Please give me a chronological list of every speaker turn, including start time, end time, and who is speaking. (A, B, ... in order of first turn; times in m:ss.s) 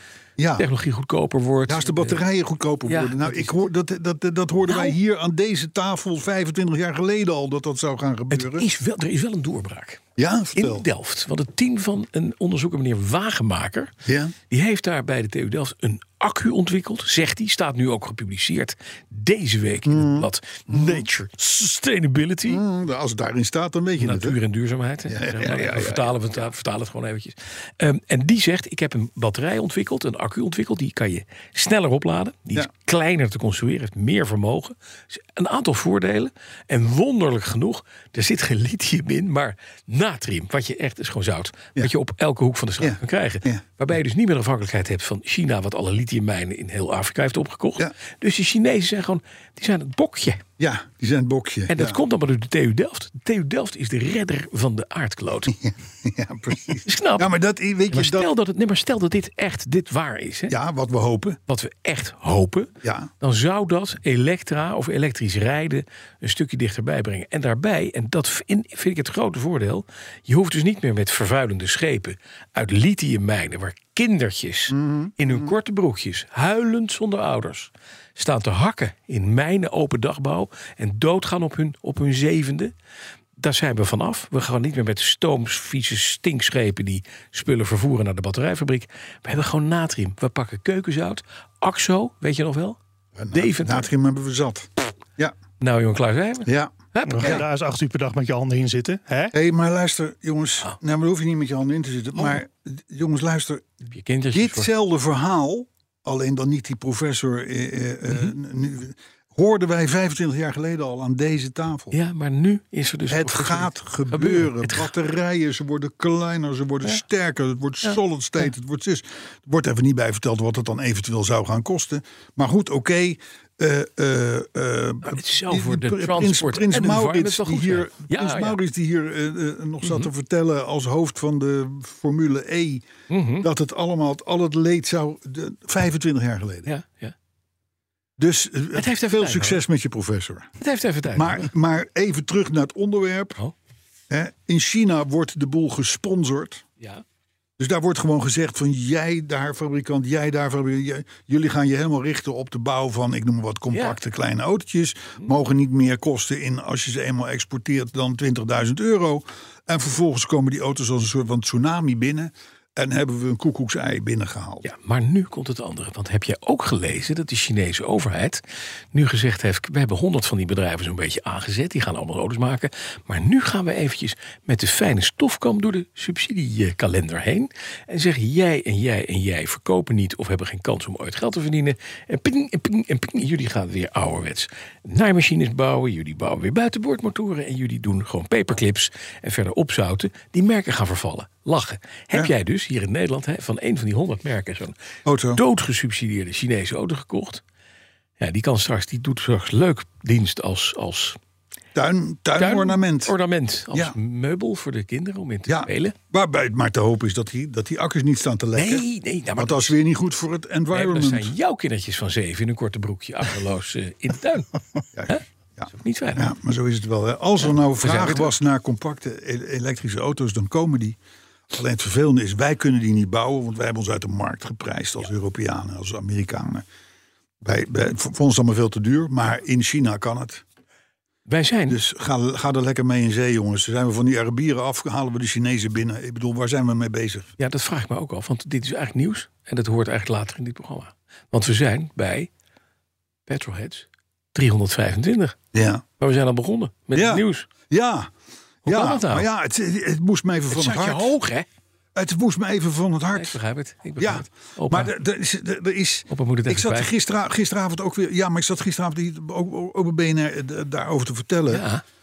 0:00.4-0:00.7 A
0:00.6-0:02.2 B
0:01.6-0:08.6 A
0:02.9-0:03.7 B
0:04.6-0:05.0 B
0:08.3-0:10.0 B
0:10.2-0:10.8 A
0:10.5-0:13.9 B
0:14.0-0:14.3 A
0:14.5-0:22.6 B
0:19.8-0:21.1 A
0:22.5-0:24.4 A
0:24.0-0:50.4 B
0:25.1-0:26.5 A
0:42.8-0:43.6 A
0:50.6-0:52.0 A
0:51.7-0:55.5 B
0:55.5-0:58.3 A
0:56.8-0:57.3 B
0:57.9-1:00.6 B
1:00.5-1:01.4 A
1:01.5-1:22.7 B
1:02.8-1:03.1 A
1:14.7-1:15.5 A
1:23.4-1:32.8 B
1:33.2-1:35.3 A
1:33.3-1:33.9 B
1:35.6-1:37.4 B
1:36.4-1:37.4 A
1:37.0-1:39.3 C
1:39.3-1:43.7 A
1:43.9-1:44.7 B
1:44.3-1:52.0 A
1:51.9-1:54.9 B
1:53.1-2:12.8 A
2:05.0-2:08.6 B
2:09.8-2:10.1 B
2:13.1-2:13.5 B
2:13.4-2:16.7 A
2:16.6-2:17.1 B
2:18.2-2:20.5 A
2:18.7-2:19.6 B
2:20.6-2:21.5 B
2:21.1-2:23.4 A
2:24.1-2:26.6 A
2:27.6-2:44.6 A
2:33.7-2:34.0 B
2:44.6-2:48.4 B
2:48.9-3:14.7 B
3:15.0-3:15.4 A
3:15.3-3:17.4 B
3:18.2-3:21.2 B
3:21.7-3:23.1 A
3:22.4-3:25.9 B
3:25.5-3:28.8 A
3:28.5-3:29.8 B
3:29.4-3:31.3 A
3:30.7-3:34.5 B
3:34.9-3:41.0 A
3:35.1-3:36.3 B
3:37.8-3:38.3 B
3:41.5-3:46.6 A
3:47.4-3:50.4 A
3:51.3-3:51.8 B
3:51.7-3:57.3 A
3:57.4-4:02.3 B
4:03.3-4:05.4 B
4:05.5-4:05.8 A
4:06.0-4:07.5 B
4:06.9-4:08.1 A
4:08.6-4:11.1 A
4:08.6-4:09.3 B
4:10.5-4:11.4 B
4:11.9-4:13.4 A
4:13.1-4:14.9 B
4:14.0-4:21.6 A
4:16.1-4:16.9 B
4:21.5-4:21.8 B